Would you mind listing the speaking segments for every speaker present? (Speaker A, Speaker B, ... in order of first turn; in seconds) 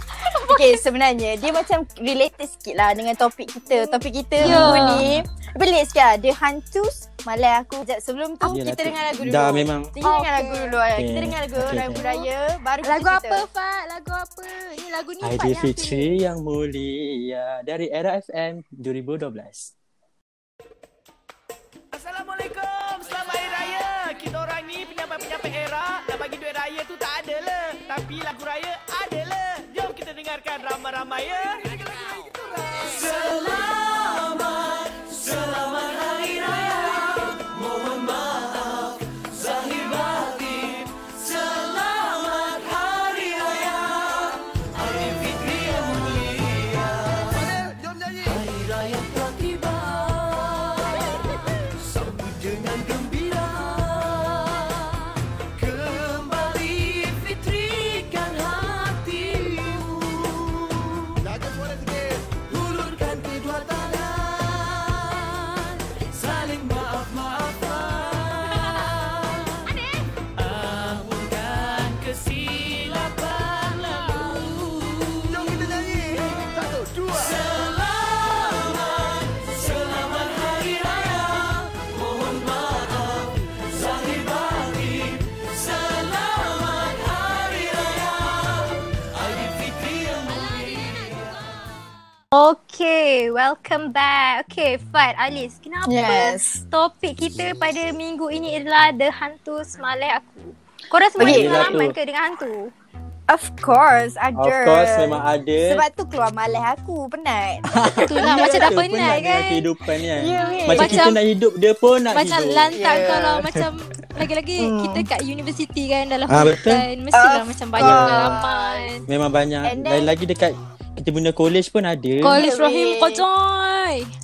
Speaker A: 0.2-0.8, 3.7-5.1, 10.0-10.8, 11.8-12.3, 12.8-16.1, 92.3-102.7, 108.0-109.7, 110.4-111.2, 112.1-119.0, 122.2-124.1
Speaker B: 0.4-13.4, 95.8-96.6, 101.2-101.8, 103.3-108.7, 110.2-111.1, 112.7-113.4, 114.6-115.1, 117.1-118.9, 119.6-120.1, 122.3-123.2
Speaker C: 4.4-5.2, 8.5-9.9, 10.9-12.0, 15.2-19.7, 101.2-101.9, 104.3-105.8, 107.7-113.6, 116.3-116.9, 117.8-118.4, 119.1-122.4
Speaker D: 22.0-31.7
Speaker E: 56.2-60.1, 66.6-67.4